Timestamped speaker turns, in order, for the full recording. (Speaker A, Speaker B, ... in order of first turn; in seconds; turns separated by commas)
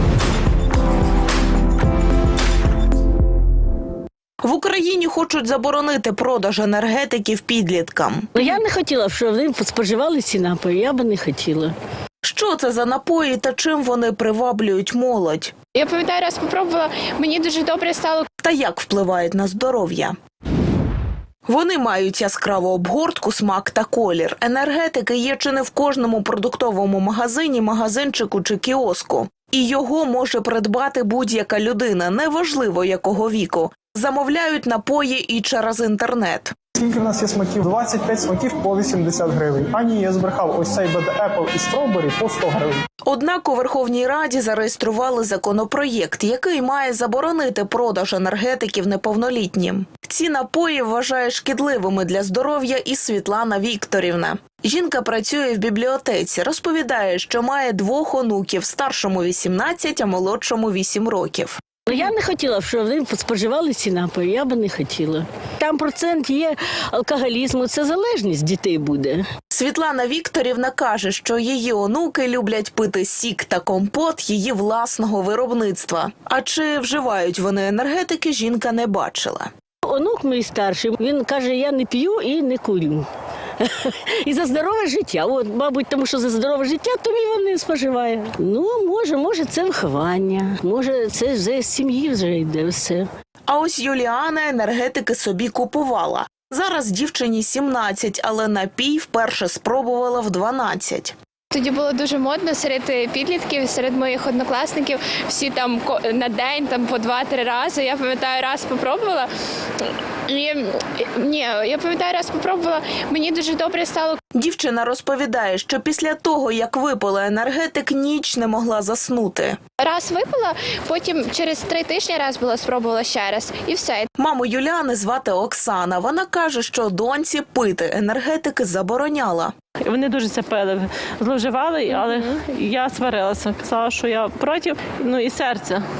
Speaker A: 4.4-8.3, Speaker B: 8.3-11.7, Speaker A: 12.2-15.5, Speaker C: 15.7-18.3, Speaker A: 18.4-20.1, Speaker A: 21.4-36.5, Speaker D: 36.8-42.8, Speaker A: 43.0-61.6, Speaker B: 61.9-69.2, Speaker A: 69.5-79.5, Speaker B: 79.8-83.1, Speaker B: 83.6-93.1, Speaker A: 93.5-101.1, Speaker C: 101.5-114.2, Speaker A: 114.3-119.6, Speaker C: 119.8-124.1, Speaker A: 124.2-129.5, Speaker E: 129.8-135.8, Speaker C: 131.9-132.2